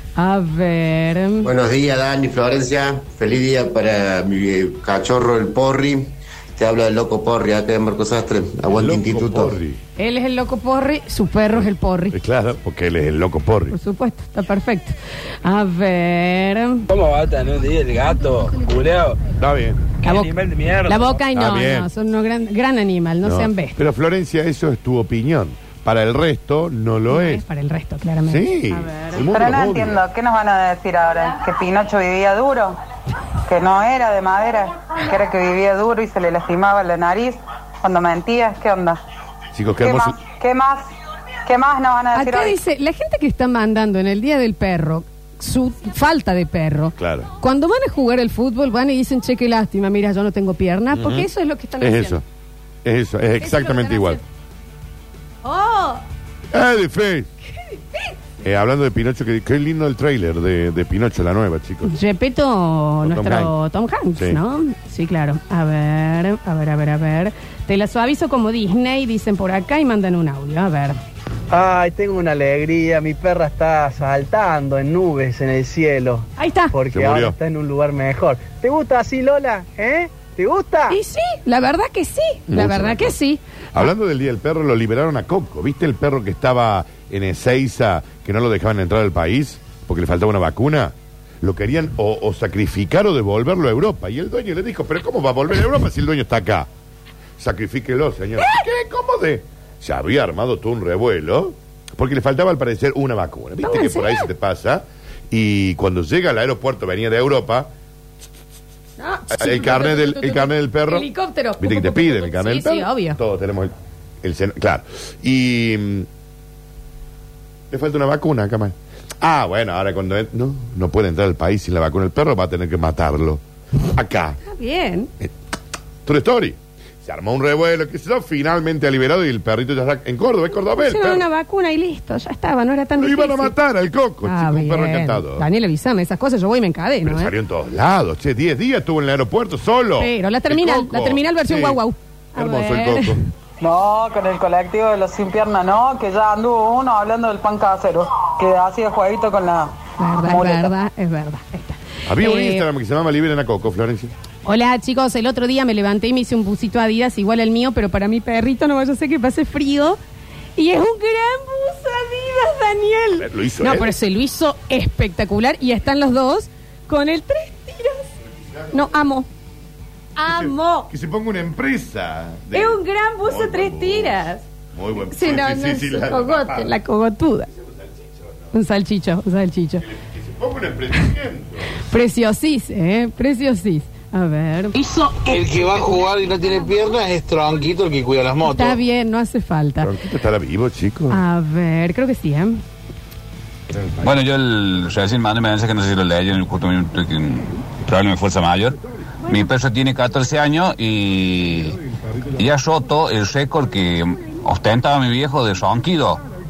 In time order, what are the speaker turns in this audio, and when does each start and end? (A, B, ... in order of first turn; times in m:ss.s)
0:00.2-0:01.5 A
0:01.4-0:09.6 B
0:08.8-0:09.8 C
0:10.0-0:12.2 A
0:11.5-0:13.8 C
0:13.7-0:16.8 A
0:16.9-0:19.2 D
0:19.4-0:19.9 C
0:20.0-0:21.2 D
0:20.0-0:20.3 A
0:20.9-0:23.8 A
0:21.3-0:21.9 C
0:23.2-0:27.4 C
0:27.1-0:29.2 A
0:28.3-0:30.0 C
0:29.3-0:32.8 E
0:33.5-0:39.0 E
0:39.5-0:40.2 C
0:39.8-0:40.8 E
0:41.5-0:42.6 E
0:42.1-0:52.2 A
0:47.0-0:47.3 C
0:50.9-0:51.3 C
0:51.8-0:52.2 C
0:52.8-0:54.2 C
0:53.4-0:54.2 A
0:55.4-0:56.0 A
0:56.5-0:57.3 C
0:57.6-0:58.1 A
0:58.4-1:02.0 C
1:01.8-1:11.0 A
1:03.0-1:03.5 C
1:04.2-1:04.4 C
1:11.5-1:21.0 F
1:16.4-1:16.8 A
1:16.9-1:17.4 C
1:20.9-1:23.9 A
1:22.5-1:23.2 C
1:23.7-1:36.7 C
1:37.4-1:47.7 C
1:43.6-1:44.3 A
1:49.0-1:53.2 A
1:49.3-1:51.1 C
1:51.6-1:56.1 C
1:57.7-2:03.4 C
2:03.9-2:04.4 C
2:04.4-2:05.1 A
2:06.0-2:11.2 C
2:10.7-2:13.5 A
2:13.0-2:15.5 C
2:14.2-2:17.3 A
2:17.0-2:21.8 C
2:20.0-2:23.2 A
2:22.4-2:23.2 C
2:23.6-2:30.7 E
2:30.0-2:32.7 A
2:32.1-2:34.1 C
2:34.4-2:40.0 A
2:40.6-2:48.0 A
2:43.2-2:43.9 C
2:48.2-2:48.9 C
2:48.7-2:49.3 A
2:50.2-2:50.9 A
2:50.3-2:56.8 C
2:52.5-2:54.4 A
2:55.1-2:57.5 A
2:57.5-2:58.5 C
2:58.5-2:59.8 A
2:59.8-3:01.7 C
3:01.9-3:04.8 A
3:04.8-3:08.8 G
3:08.4-3:09.9 A
3:09.8-3:11.2 C
3:11.1-3:12.6 A
3:14.0-3:21.8 H
3:22.4-3:26.2 H